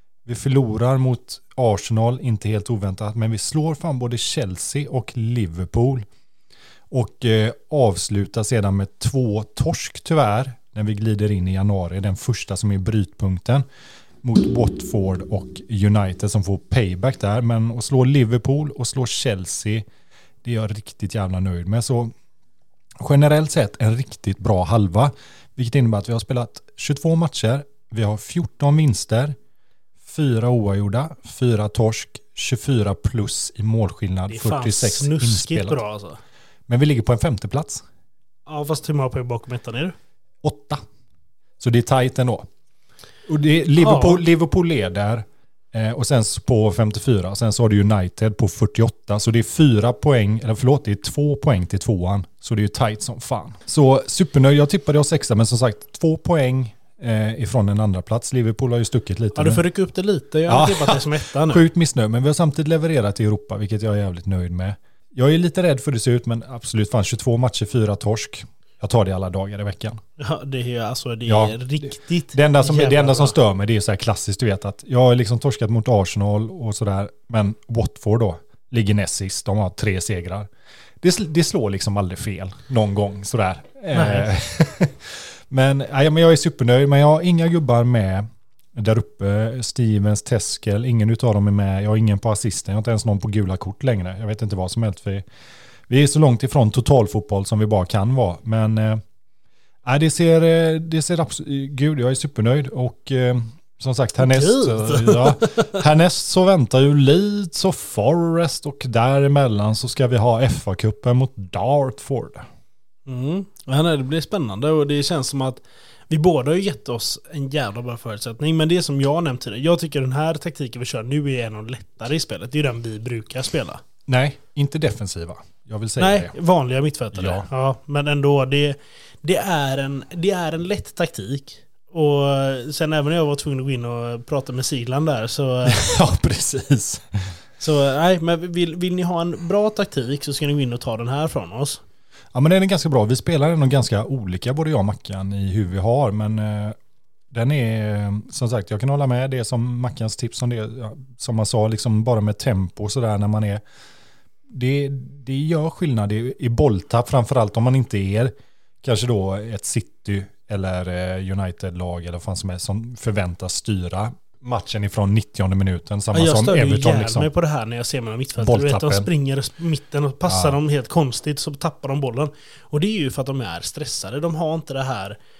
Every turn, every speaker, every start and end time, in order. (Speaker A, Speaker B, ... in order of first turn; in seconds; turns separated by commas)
Speaker A: 0.2-6.0, Speaker A: 6.9-13.6, Speaker A: 14.2-19.8, Speaker A: 20.4-22.1, Speaker A: 23.0-29.4, Speaker A: 30.0-35.8, Speaker B: 34.3-36.2, Speaker A: 36.7-37.8, Speaker B: 38.5-39.9, Speaker A: 40.4-40.8, Speaker A: 41.6-42.5, Speaker A: 43.3-59.6, Speaker B: 43.8-44.2, Speaker B: 59.3-61.6, Speaker A: 60.5-70.0, Speaker B: 70.2-73.4, Speaker A: 71.3-80.5, Speaker A: 81.0-95.2, Speaker B: 83.9-84.3, Speaker A: 95.9-99.0, Speaker A: 99.8-112.4, Speaker B: 104.2-105.8, Speaker B: 113.1-123.8, Speaker A: 124.1-126.3, Speaker B: 126.0-135.9, Speaker A: 127.1-127.5, Speaker A: 135.6-137.2, Speaker B: 137.6-141.8, Speaker A: 142.3-146.7, Speaker A: 147.3-153.6, Speaker A: 154.5-167.3, Speaker B: 166.1-175.2, Speaker A: 168.4-169.1, Speaker A: 170.3-170.5